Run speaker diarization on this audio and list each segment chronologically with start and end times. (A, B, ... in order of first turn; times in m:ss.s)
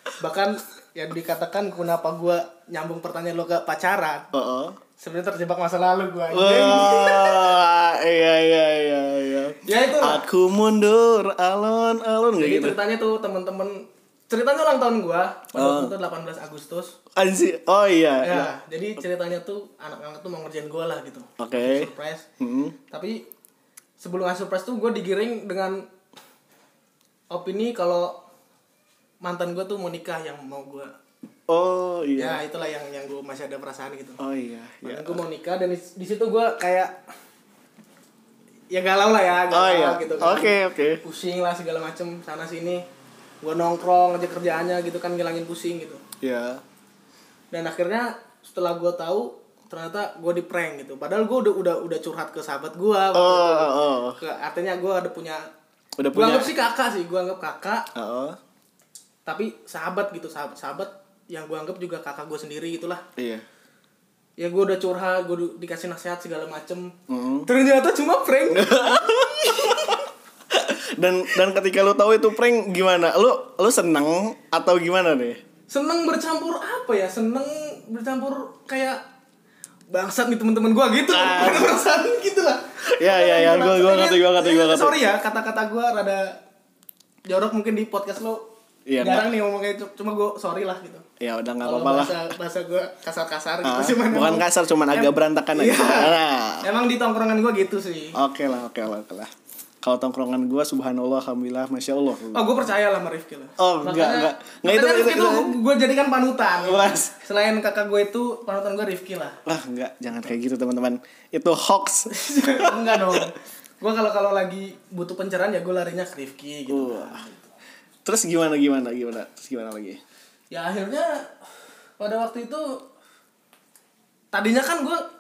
0:00.2-0:04.3 A
0:04.3-0:04.8 B
0:05.0-0:07.5 A
0:06.3-0:12.8 B
0:09.6-0:10.2 A
0:12.3-0:17.0 A
0:15.5-0:15.9 B
0:17.2-0:18.5 B
0:18.2-0:22.2 A
0:21.4-0:22.8 B
0:22.9-0:23.2 A
0:24.0-0:25.8 A
0:27.3-0:28.2 A
0:29.2-0:30.9 A
0:31.5-0:32.4 B
0:32.2-0:34.2 A
0:34.2-0:35.2 B
0:34.8-0:37.0 A
0:38.7-0:42.8 A
0:39.5-0:41.0 B
0:43.4-0:46.0 A
0:46.2-0:46.6 B
0:47.5-0:55.5 A
0:53.1-0:54.2 B
0:56.0-0:56.5 B
0:56.1-0:57.9 A
0:57.9-0:58.4 B
0:59.2-1:03.0 A
1:03.2-1:03.4 B
1:04.4-1:09.9 A
1:07.1-1:07.5 B
1:08.5-1:15.4 B
1:15.7-1:19.0 A
1:19.9-1:26.4 A
1:21.1-1:21.8 B
1:22.9-1:25.0 B
1:27.2-1:28.5 A
1:28.8-1:29.3 B
1:29.0-1:31.0 A
1:31.2-1:32.2 B
1:31.6-1:38.2 A
1:33.6-1:36.7 B
1:38.1-1:39.3 B
1:39.8-1:42.7 B
1:42.3-1:49.4 A
1:43.6-1:45.6 B
1:46.6-1:47.1 B
1:49.4-1:53.3 B
1:52.1-1:57.5 A
1:56.7-1:57.2 B
1:58.0-2:00.0 B
2:00.5-2:01.2 A
2:02.0-2:02.8 A
2:04.3-2:05.0 A